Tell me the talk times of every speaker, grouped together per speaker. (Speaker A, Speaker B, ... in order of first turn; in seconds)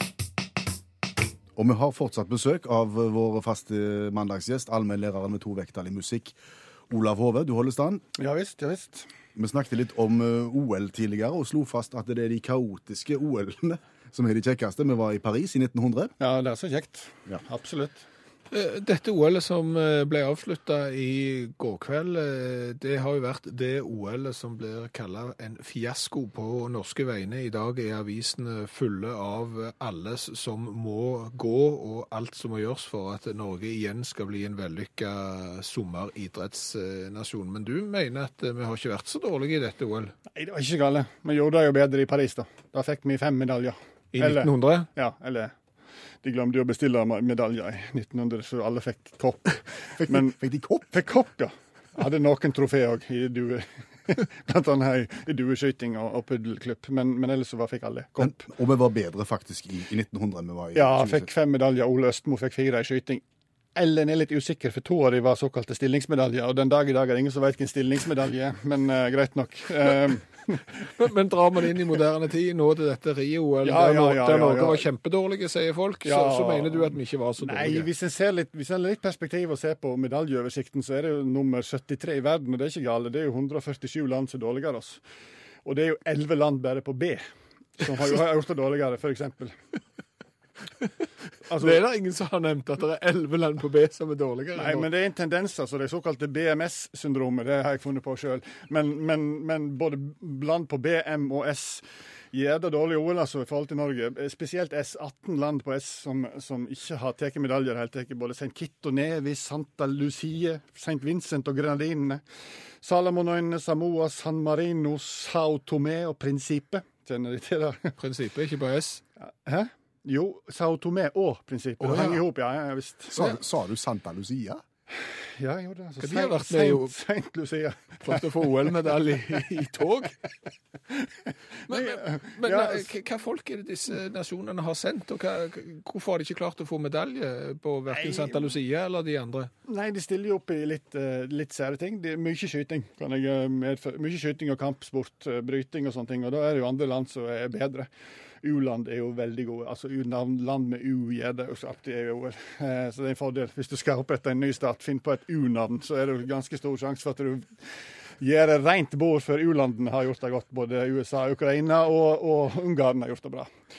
Speaker A: 1.6-6.4, 6.9-8.0, 9.4-16.1, 50.0-50.9, 58.2-61.3, 123.1-124.6
Speaker B: 8.2-9.1, 16.2-18.0, 40.3-45.5, 46.2-50.4, 50.9-58.5, 60.7-63.2, 63.7-70.8, 73.6-74.8, 76.1-85.0, 85.6-87.2, 87.8-89.6, 91.5-91.8, 94.6-112.2, 112.8-118.0, 119.3-123.2, 125.4-129.4, 131.7-132.9, 137.9-138.5, 139.7-147.9, 148.4-163.5
Speaker C: 18.5-40.1, 44.1-44.9, 70.8-77.9, 91.5-94.9, 118.0-119.0, 121.8-122.2, 126.0-126.9, 128.0-130.1, 131.7-139.5